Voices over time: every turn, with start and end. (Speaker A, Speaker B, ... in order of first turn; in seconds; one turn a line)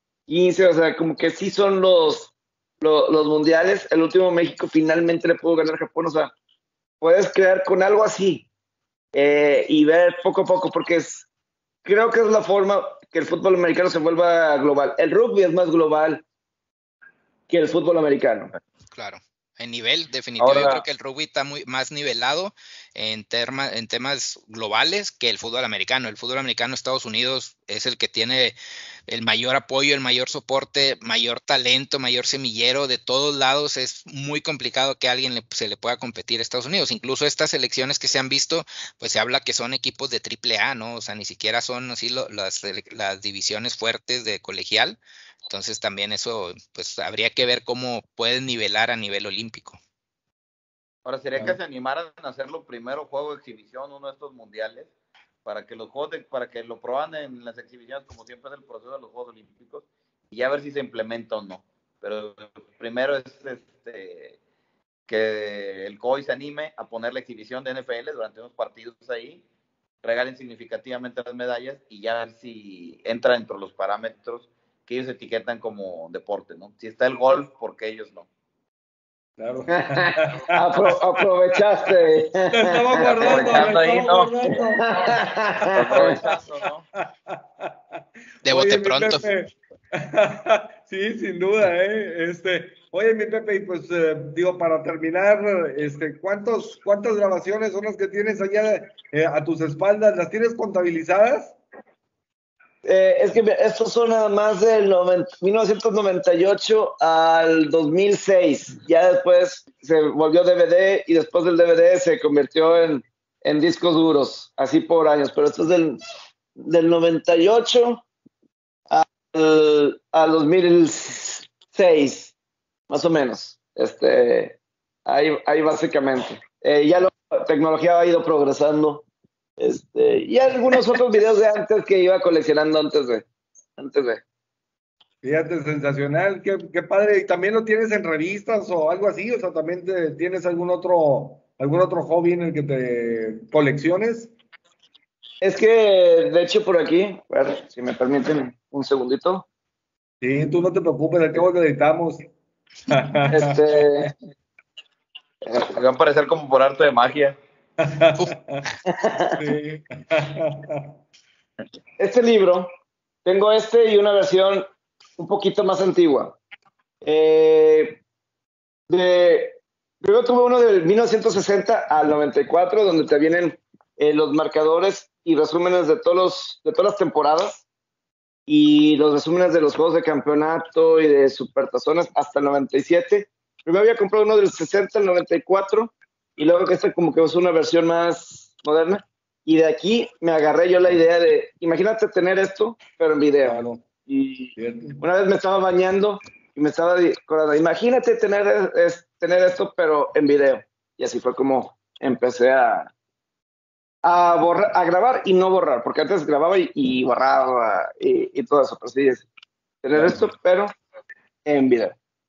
Speaker A: 0.3-6.3
Speaker A: 7.0-8.5
Speaker A: 9.1-11.3
Speaker A: 11.8-16.2
Speaker A: 17.5-18.5
Speaker B: 18.9-28.6
Speaker C: 20.4-20.8
Speaker B: 29.1-49.8
Speaker C: 51.0-54.9
Speaker C: 55.5-64.4
Speaker C: 65.1-69.4
Speaker C: 70.0-78.3
Speaker D: 79.4-80.7
Speaker A: 79.7-83.6
Speaker D: 82.5-86.4
Speaker C: 83.2-84.3
Speaker A: 84.8-86.2
Speaker C: 85.7-86.9
Speaker D: 87.0-87.7
Speaker B: 88.5-89.3
Speaker D: 88.5-101.6
Speaker A: 102.8-116.0
Speaker A: 116.6-118.0
Speaker A: 118.9-122.3
Speaker A: 122.9-129.1
Speaker A: 129.6-133.2
Speaker A: 133.8-134.2
Speaker D: 135.2-144.3
Speaker A: 145.4-149.5
Speaker D: 150.2-152.3
Speaker D: 152.9-154.1
Speaker A: 153.3-154.1
Speaker C: 155.6-157.4
Speaker D: 157.8-158.6
Speaker A: 158.9-159.4
Speaker D: 159.4-160.9
Speaker A: 162.0-162.7
Speaker A: 163.2-164.7
Speaker A: 165.2-166.4
Speaker A: 167.0-168.0
Speaker A: 168.9-177.7
Speaker A: 178.5-202.9
Speaker D: 193.4-193.8
Speaker D: 194.6-195.0
Speaker A: 204.0-209.3
Speaker A: 209.8-210.7
Speaker D: 209.9-210.3
Speaker A: 211.4-212.0